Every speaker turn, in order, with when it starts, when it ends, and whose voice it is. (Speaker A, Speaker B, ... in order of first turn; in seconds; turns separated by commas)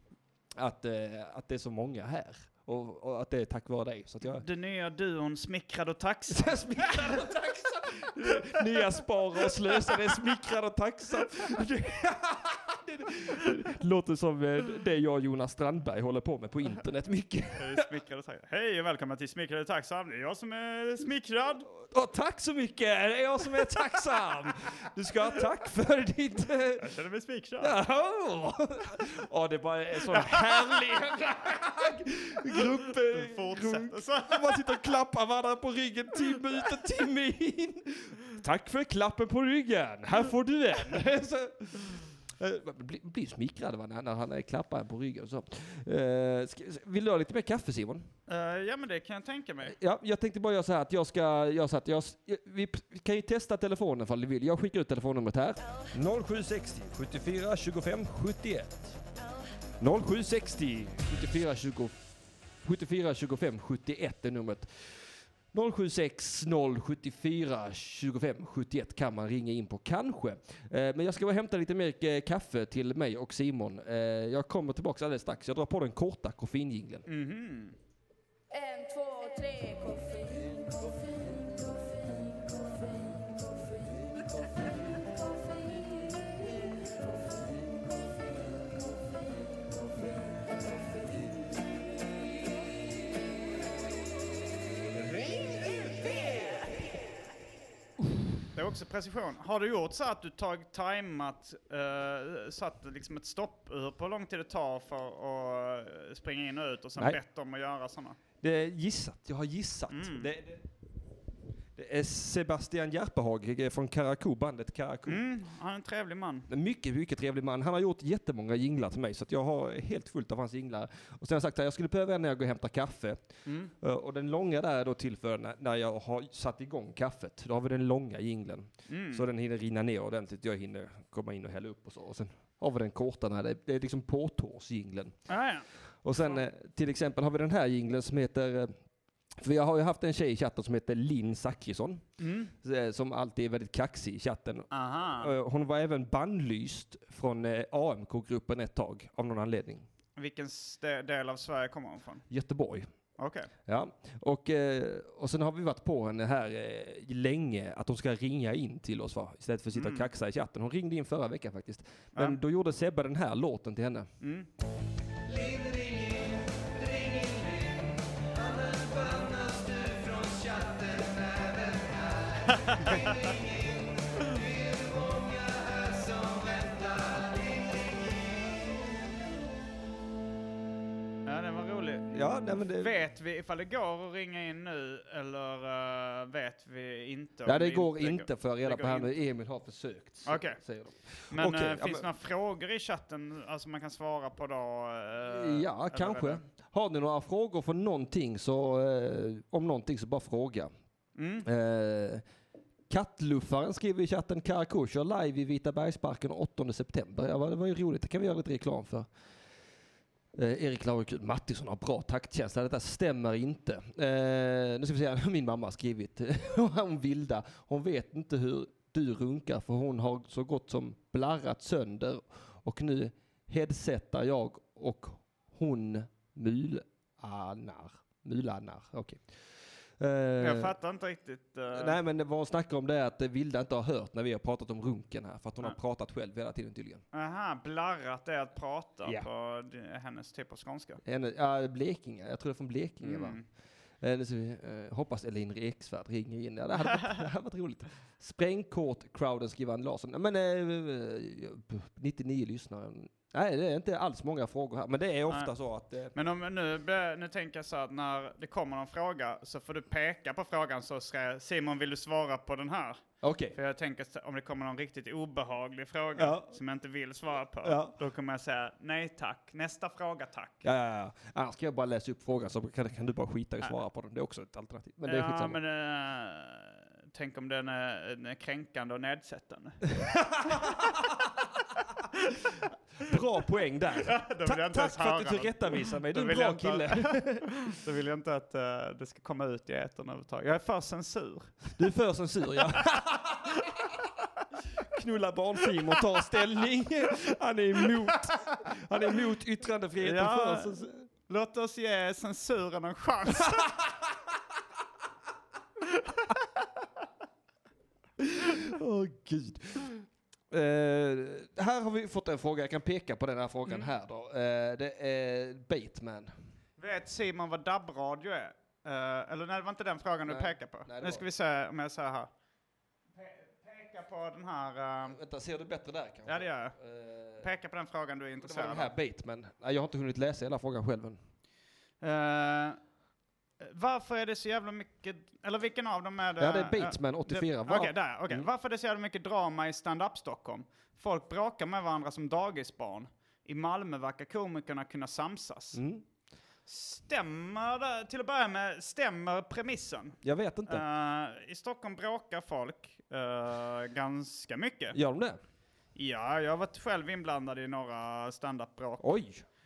Speaker A: 0.6-4.4, Speaker B: 4.2-7.3, Speaker A: 6.3-17.8, Speaker B: 8.2-9.0, Speaker B: 9.9-10.2, Speaker B: 17.6-21.7, Speaker A: 21.7-26.8, Speaker B: 26.8-27.8, Speaker A: 27.6-48.1, Speaker B: 30.1-30.7, Speaker B: 33.1-34.8, Speaker B: 48.3-49.8, Speaker A: 49.7-59.0, Speaker A: 59.8-77.1, Speaker B: 77.1-77.8, Speaker C: 79.0-80.8, Speaker B: 98.5-108.2, Speaker A: 108.4-110.6, Speaker B: 109.9-110.3, Speaker A: 111.8-115.2, Speaker B: 115.0-116.5, Speaker A: 116.5-123.3, Speaker B: 123.5-123.7, Speaker A: 123.8-135.2, Speaker B: 128.9-129.2, Speaker B: 135.3-135.7, Speaker A: 136.0-138.8, Speaker A: 139.4-142.0, Speaker B: 142.2-142.5, Speaker A: 142.6-144.7, Speaker B: 144.7-145.3, Speaker A: 145.2-149.8, Speaker B: 150.2-152.2, Speaker A: 152.3-152.9, Speaker B: 153.2-153.5, Speaker A: 153.7-164.1, Speaker B: 159.7-160.1, Speaker B: 164.2-164.5, Speaker C: 165.2-178.6, Speaker B: 172.6-173.3, Speaker B: 181.2-182.2, Speaker A: 182.1-182.9, Speaker B: 182.8-189.1, Speaker A: 187.4-192.1, Speaker B: 190.2-190.6, Speaker B: 191.3-196.4, Speaker A: 195.3-200.7, Speaker B: 201.2-201.4, Speaker A: 201.4-202.2, Speaker A: 202.9-209.1, Speaker A: 210.3-229.2, Speaker A: 230.0-230.7, Speaker B: 230.4-232.0, Speaker A: 231.7-237.0, Speaker B: 237.1-241.0, Speaker A: 241.0-243.4, Speaker B: 243.0-243.4, Speaker A: 244.0-256.1, Speaker B: 246.8-247.1, Speaker B: 256.1-263.0, Speaker A: 263.2-263.6, Speaker B: 263.5-270.7, Speaker A: 266.2-266.5, Speaker A: 267.6-267.9, Speaker A: 270.6-275.6, Speaker B: 275.0-279.9, Speaker A: 279.9-281.1, Speaker B: 280.4-280.9, Speaker A: 283.0-287.6, Speaker B: 284.0-291.8, Speaker A: 291.8-293.5, Speaker B: 292.6-293.7, Speaker A: 294.8-301.1, Speaker B: 300.0-303.7, Speaker A: 303.6-303.9, Speaker A: 308.2-316.3, Speaker B: 316.8-322.3, Speaker A: 320.3-321.2, Speaker B: 323.1-325.2, Speaker A: 325.1-327.5, Speaker B: 326.3-326.7, Speaker B: 327.4-328.9, Speaker A: 328.4-331.2, Speaker B: 332.0-332.8, Speaker B: 333.6-345.8, Speaker A: 336.4-338.5, Speaker A: 345.7-346.0, Speaker B: 346.7-354.9, Speaker A: 350.2-350.8, Speaker A: 354.9-355.4, Speaker B: 355.9-359.1, Speaker A: 359.0-359.4